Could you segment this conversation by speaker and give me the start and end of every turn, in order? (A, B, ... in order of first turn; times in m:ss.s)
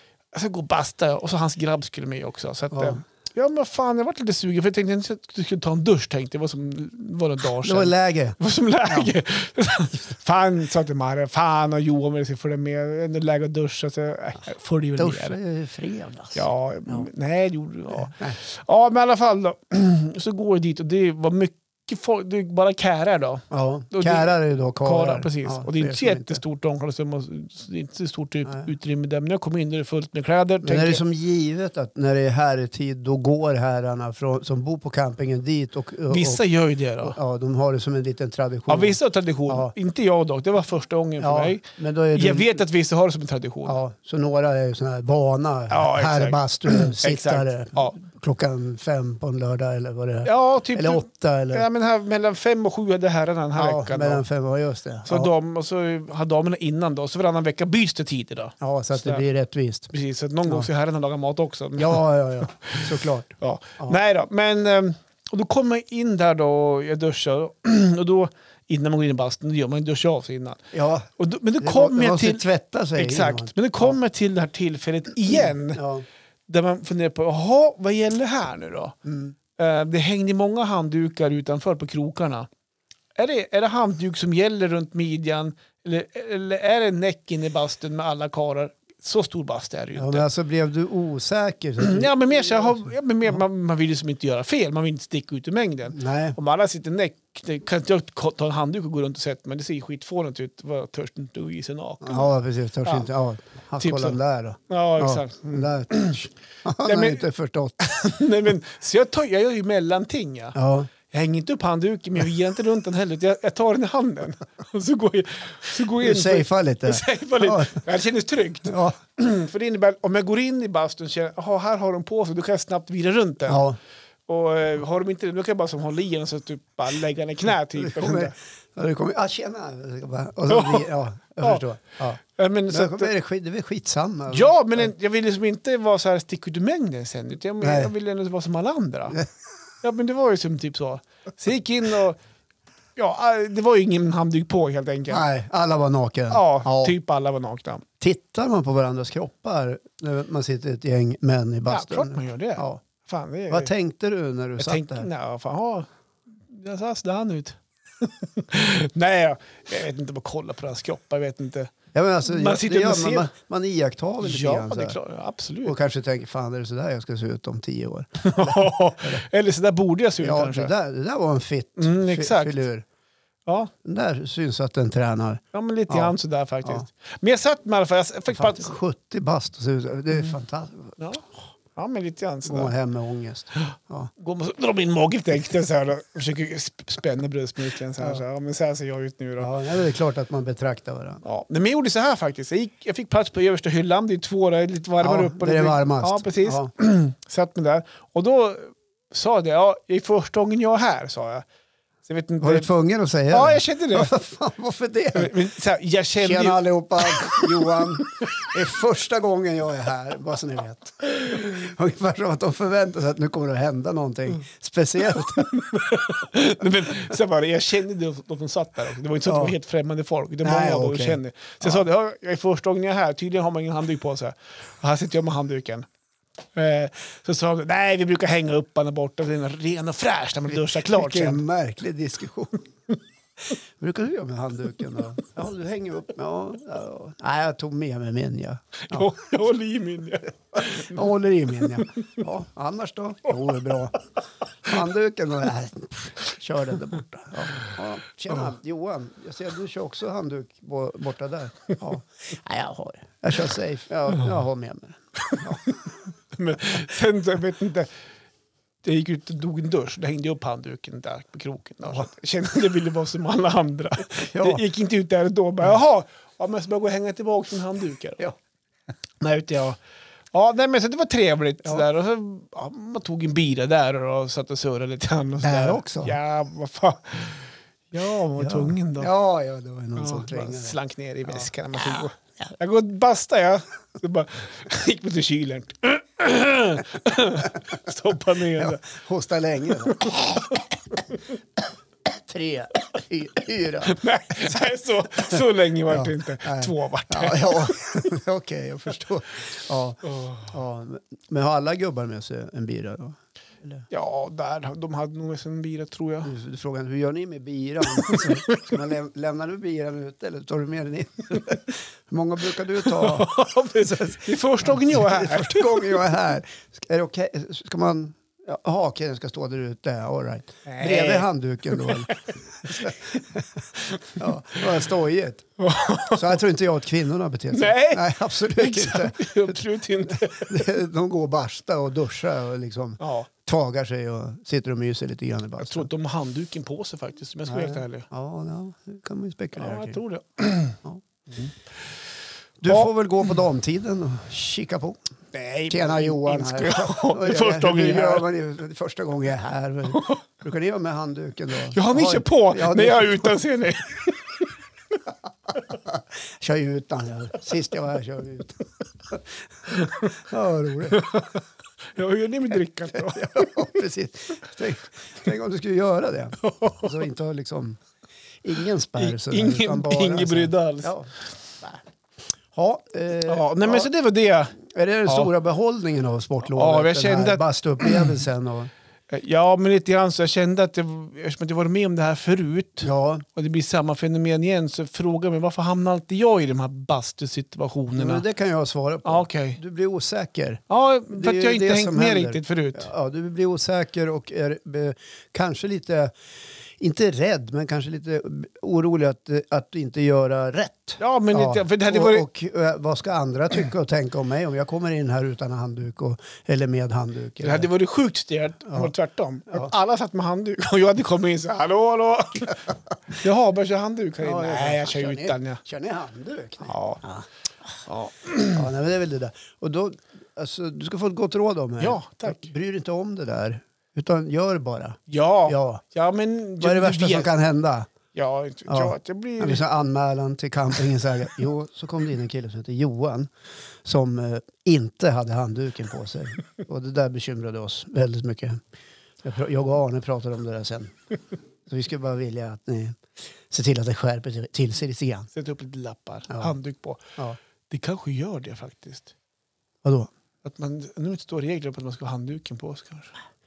0:00.3-0:15.4 A
0:02.7-0:03.0 B
0:07.6-0:09.1 B
0:15.0-0:17.1 B
0:16.4-0:31.0 A
0:17.9-0:18.4 B
0:23.5-0:26.4 B
0:30.6-0:36.4 B
0:36.1-0:37.2 A
0:37.0-0:39.7 B
0:38.7-0:43.8 A
0:41.2-0:42.5 B
0:43.7-0:51.7 B
0:45.7-0:48.0 A
0:50.2-0:54.2 A
0:53.6-0:55.3 B
0:55.1-0:59.2 A
0:58.6-0:59.9 B
0:59.9-1:02.0 A
1:01.8-1:04.0 B
1:02.6-1:02.9 A
1:03.4-1:12.4 A
1:10.7-1:11.1 B
1:11.6-1:14.0 B
1:13.0-1:15.8 A
1:15.3-1:16.0 B
1:16.5-1:19.0 A
1:19.0-1:19.4 B
1:19.6-1:22.5 A
1:23.2-1:30.3 A
1:30.0-1:33.4 B
1:31.8-1:42.3 A
1:35.9-1:36.4 B
1:42.0-1:47.8 B
1:43.8-1:46.3 A
1:46.8-1:47.2 A
1:47.8-2:03.7 A
1:50.6-1:50.9 B
1:56.0-1:57.8 B
1:58.7-1:59.0 B
2:03.5-2:03.8 B
2:04.3-2:08.4 A
2:07.7-2:14.9 B
2:10.5-2:11.6 A
2:12.3-2:13.1 A
2:14.3-2:19.2 A
2:17.6-2:17.9 B
2:19.8-2:22.2 A
2:23.0-2:25.3 A
2:25.1-2:27.0 B
2:26.3-2:27.8 A
2:28.0-2:32.8 B
2:31.7-2:33.7 A
2:33.5-2:35.1 B
2:34.6-2:43.3 A
2:41.9-2:45.0 B
2:44.2-2:45.8 A
2:45.6-2:49.2 B
2:48.2-2:50.7 A
2:50.2-2:52.8 B
2:51.8-2:52.6 A
2:53.5-2:53.7 A
2:53.8-2:56.1 B
2:55.5-2:58.8 A
2:58.3-3:01.0 B
3:01.0-3:02.7 A
3:02.4-3:04.1 B
3:03.6-3:09.5 A
3:09.4-3:11.2 B
3:11.2-3:21.4 A
3:15.0-3:16.7 B
3:22.0-3:22.7 A
3:22.4-3:25.4 B
3:23.3-3:24.2 A
3:25.1-3:28.5 A
3:26.2-3:35.5 B
3:35.1-3:45.9 A
3:39.2-3:39.6 B
3:40.4-3:41.9 B
3:46.6-3:51.4 A
3:50.5-3:52.6 B
3:53.8-3:59.1 B
3:58.8-4:01.0 A
4:00.6-4:04.0 B
4:01.6-4:02.1 A
4:04.6-4:15.6 B
4:15.3-4:15.8 A
4:16.3-4:17.9 A
4:18.8-4:28.3 A
4:24.2-4:24.6 B
4:29.2-4:29.8 A
4:30.3-4:39.1 A
4:35.4-4:36.2 B
4:38.4-4:42.4 B
4:40.0-4:48.8 A
4:48.6-4:50.2 B
4:49.8-4:51.2 A
4:52.0-4:54.6 B
4:53.8-4:58.1 A
4:55.3-5:03.8 B
5:00.0-5:00.5 A
5:03.9-5:06.3 A
5:06.2-5:25.5 B
5:08.0-5:08.7 A
5:12.8-5:16.2 A
5:20.7-5:23.2 A
5:23.8-5:24.2 A
5:25.6-5:26.4 A
5:26.1-5:35.9 B
5:27.5-5:30.7 A
5:33.0-5:33.3 A
5:35.6-5:38.1 A
5:37.5-5:40.0 B
5:39.6-5:40.8 A
5:42.6-5:45.0 B
5:45.3-5:48.3 A
5:45.7-5:53.4 B
5:49.9-5:50.2 A
5:51.7-5:54.4 A
5:55.7-5:59.3 B
5:59.7-6:00.1 A
6:00.0-6:01.0 B
6:00.9-6:01.4 A
6:02.0-6:03.7 A
6:02.9-6:07.8 B
6:06.4-6:06.9 A
6:08.4-6:11.1 B
6:09.0-6:11.0 A
6:12.5-6:13.9 B
6:13.3-6:15.3 A
6:14.6-6:18.7 B
6:16.4-6:18.1 A
6:19.1-6:28.2 A
6:22.8-6:23.2 B
6:28.0-6:36.1 B
6:29.0-6:29.6 A
6:30.7-6:32.9 A
6:36.8-6:47.7 B
6:41.0-6:42.3 A
6:47.4-6:55.6 A
6:54.2-6:57.3 B
6:56.6-6:57.0 A
6:57.9-6:58.7 A
6:58.5-7:05.8 B
7:01.8-7:02.5 A
7:05.1-7:07.3 A
7:06.6-7:07.9 B
7:08.1-7:09.6 A
7:08.7-7:13.3 B
7:13.8-7:18.6 B
7:19.2-7:21.0 B
7:21.7-7:25.3 B
7:25.3-7:27.0 A
7:27.7-7:29.1 A
7:29.8-7:30.1 B
7:30.4-7:33.1 A